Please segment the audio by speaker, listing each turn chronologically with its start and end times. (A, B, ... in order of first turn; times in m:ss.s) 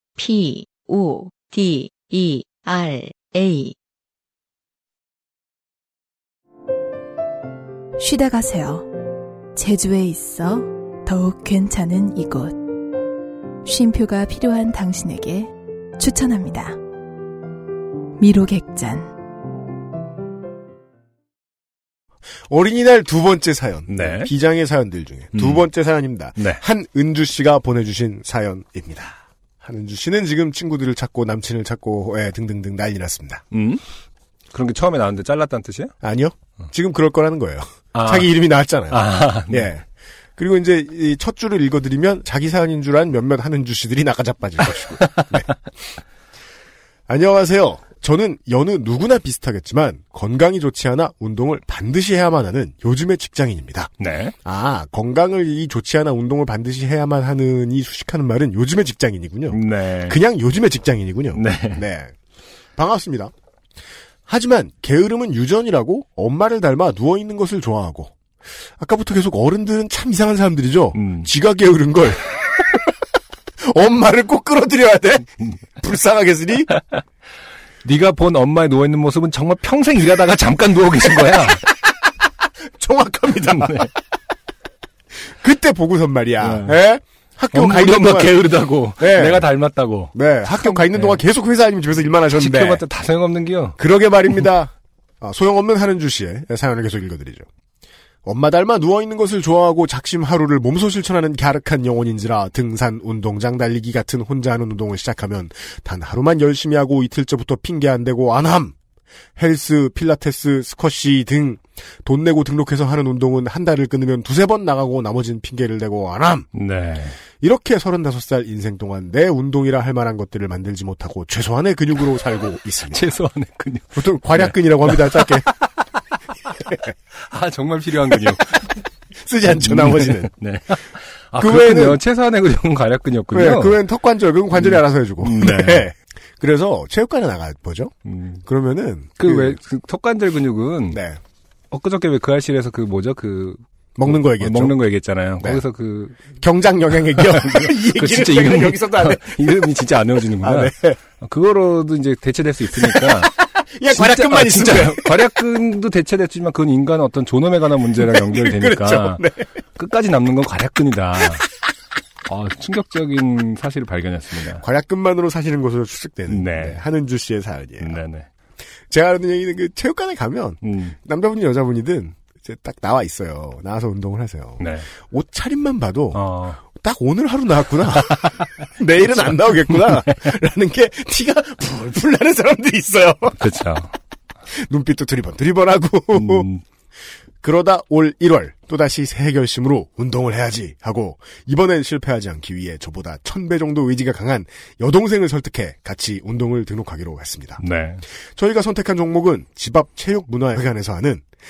0:00.2-0:03.8 A
0:08.0-0:08.9 B
0:09.5-0:12.6 B
0:13.6-0:16.8 B
0:18.2-0:19.1 B
0:22.5-0:33.4 C
0:23.9-0:24.3 D
0:25.3-0:25.7 D
0:26.4-0:26.6 D
0:33.5-0:33.8 D
0:34.5-0:35.9 D
0:36.0-0:39.8 C
0:37.9-0:38.3 D
0:38.9-0:39.7 D
0:40.4-0:45.5 C
0:45.0-0:45.3 D
0:47.1-0:53.9 C
0:54.0-0:54.3 D
0:54.4-1:02.1 C
0:59.5-1:00.2 D
1:01.3-1:01.8 D
1:02.8-1:03.3 C
1:04.3-1:08.1 C
1:08.8-1:12.8 C
1:11.0-1:11.3 D
1:13.6-1:16.7 C
1:17.8-1:21.7 D
1:22.8-1:23.9 C
1:23.6-1:23.9 D
1:25.4-1:28.4 C
1:26.4-1:26.8 D
1:27.5-1:31.2 D
1:29.0-1:29.5 C
1:30.1-1:32.8 C
1:32.3-1:33.8 D
1:33.8-1:37.4 C
1:38.2-1:48.7 C
1:49.4-1:56.5 C
1:56.5-1:57.2 D
1:57.4-2:03.0 C
2:02.8-2:05.4 D
2:03.9-2:05.5 C
2:07.1-2:08.8 D
2:09.2-2:10.3 C
2:09.6-2:13.8 D
2:11.3-2:12.0 C
2:13.3-2:17.9 C
2:14.6-2:15.9 D
2:18.1-2:18.4 D
2:18.4-2:19.6 C
2:19.2-2:21.0 D
2:20.9-2:21.2 C
2:21.7-2:26.2 D
2:24.0-2:24.8 C
2:26.4-2:29.6 C
2:27.0-2:33.3 D
2:30.4-2:31.0 C
2:32.7-2:35.3 C
2:33.9-2:39.2 D
2:38.0-2:39.5 C
2:39.8-2:41.4 D
2:42.2-2:44.6 D
2:44.6-2:48.0 C
2:46.3-2:46.8 D
2:47.8-2:48.3 D
2:48.9-3:03.4 C
2:50.6-2:51.0 D
2:54.6-2:54.9 D
2:56.1-2:56.6 D
2:58.1-2:58.5 D
2:59.3-3:00.2 D
3:03.3-3:03.9 D
3:04.5-3:06.5 C
3:06.1-3:06.6 D
3:07.4-3:17.6 C
3:17.6-3:18.0 D
3:18.4-3:21.2 C